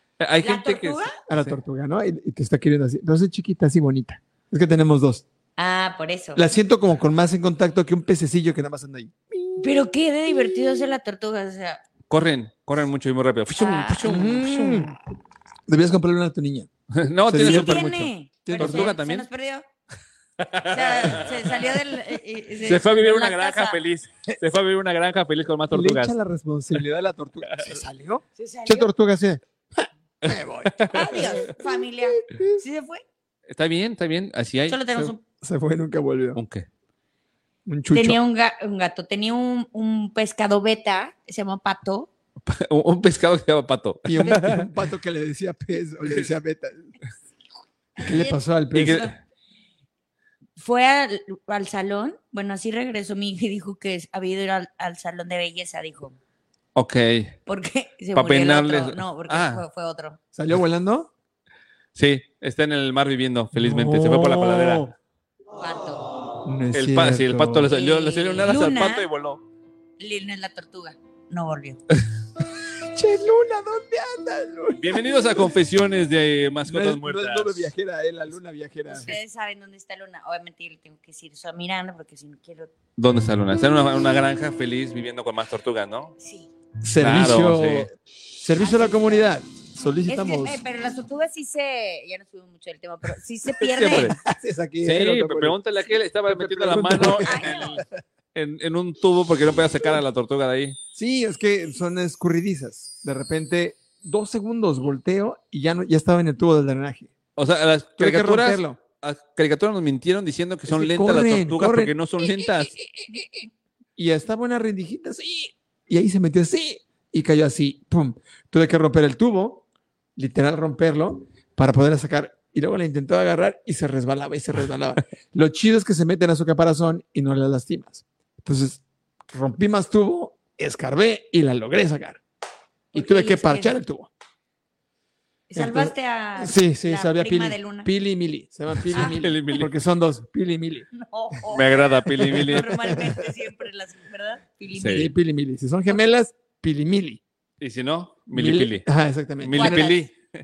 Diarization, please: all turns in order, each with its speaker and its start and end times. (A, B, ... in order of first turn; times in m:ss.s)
0:00.2-0:01.6 A
0:00.4-0:01.2 B
0:01.3-0:05.2 C
0:05.6-0:06.4 B
0:06.4-0:09.7 C
0:09.6-0:11.8 B
0:10.3-0:10.7 C
0:12.1-0:14.9 A
0:13.6-0:14.3 B
0:14.0-0:14.9 C
0:15.7-0:16.7 C
0:16.9-0:19.3 A
0:17.3-0:19.0 C
0:17.4-0:19.6 B
0:20.4-0:21.6 A
0:20.6-0:23.8 B
0:22.6-0:26.2 A
0:25.7-0:32.6 C
0:28.4-0:28.9 B
0:30.2-0:31.4 A
0:30.9-0:33.0 B
0:33.5-0:34.8 A
0:34.7-0:35.2 B
0:34.9-0:36.4 C
0:36.4-0:36.6 A
0:37.6-0:38.2 C
0:37.9-0:42.1 B
0:42.4-0:44.7 A
0:44.0-0:46.9 C
0:48.0-0:49.1 B
0:48.0-0:49.1 C
0:48.7-0:49.1 A
0:50.6-0:56.2 B
0:56.7-0:57.3 A
0:57.4-1:00.2 B
0:58.1-0:59.6 A
1:00.3-1:01.1 C
1:01.9-1:04.9 A
1:03.5-1:04.9 C
1:05.6-1:06.1 B
1:06.4-1:07.7 C
1:06.7-1:09.4 A
1:07.7-1:09.1 B
1:10.0-1:11.8 B
1:12.9-1:15.5 C
1:14.8-1:17.7 A
1:16.6-1:19.1 C
1:18.9-1:22.7 B
1:23.0-1:26.1 A
1:26.2-1:26.5 B
1:26.8-1:30.6 C
1:27.0-1:27.9 A
1:28.6-1:29.2 B
1:30.1-1:34.2 B
1:33.6-1:34.2 A
1:33.8-1:35.6 C
1:34.8-1:37.8 A
1:36.3-1:37.8 C
1:37.2-1:37.8 B
1:38.3-1:40.8 A
1:40.9-1:47.1 C
1:47.4-1:52.8 A
1:48.0-1:48.8 C
1:50.7-1:53.2 C
1:54.0-1:59.6 C
2:00.2-2:12.2 C
2:12.9-2:13.8 B
2:12.9-2:14.1 C
2:15.5-2:17.9 B
2:15.6-2:20.9 C
2:18.8-2:19.7 A
2:18.9-2:19.2 B
2:20.9-2:25.1 B
2:21.5-2:22.7 A
2:22.2-2:23.2 C
2:24.8-2:25.1 A
2:24.9-2:27.2 C
2:27.6-2:28.8 A
2:28.3-2:30.0 C
2:29.4-2:30.1 A
2:29.6-2:30.0 B